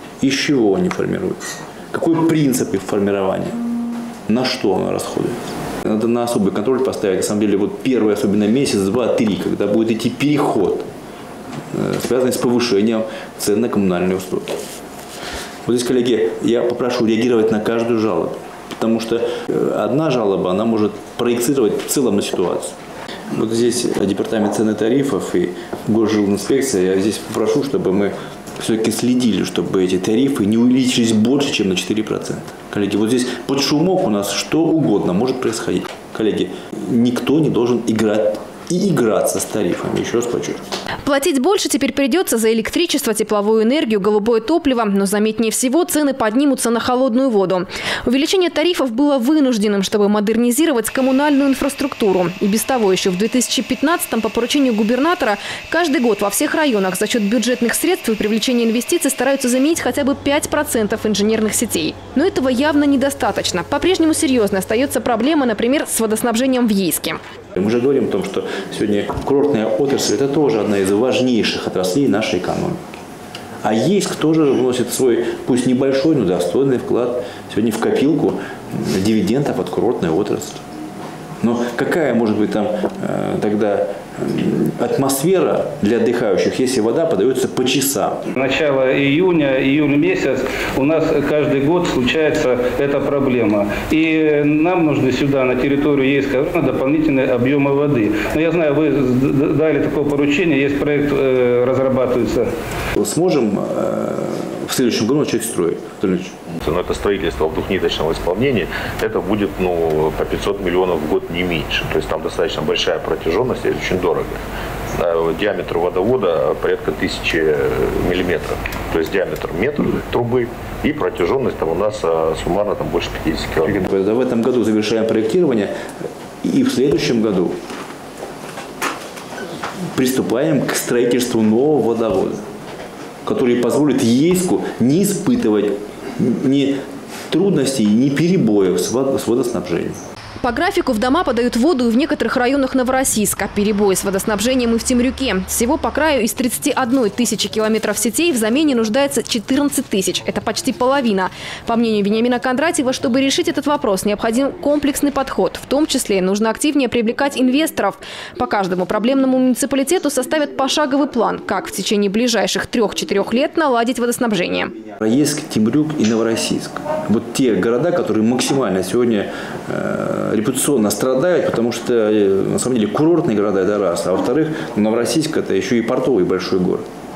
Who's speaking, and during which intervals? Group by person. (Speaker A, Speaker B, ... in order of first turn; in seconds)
Speaker A: 0.2-1.4, 1.9-3.6, 4.3-10.9, 11.7-14.6, 15.7-22.8, 23.3-40.6, 67.5-72.8, 73.6-80.6, 81.4-88.2, 103.0-106.3, 123.7-125.7, 126.4-127.6, 129.9-132.4, 133.2-136.8, 137.3-140.0, 165.0-176.8
Speaker B: 41.0-67.2, 140.4-164.7
Speaker C: 88.3-102.5
Speaker D: 106.6-114.4, 114.9-123.8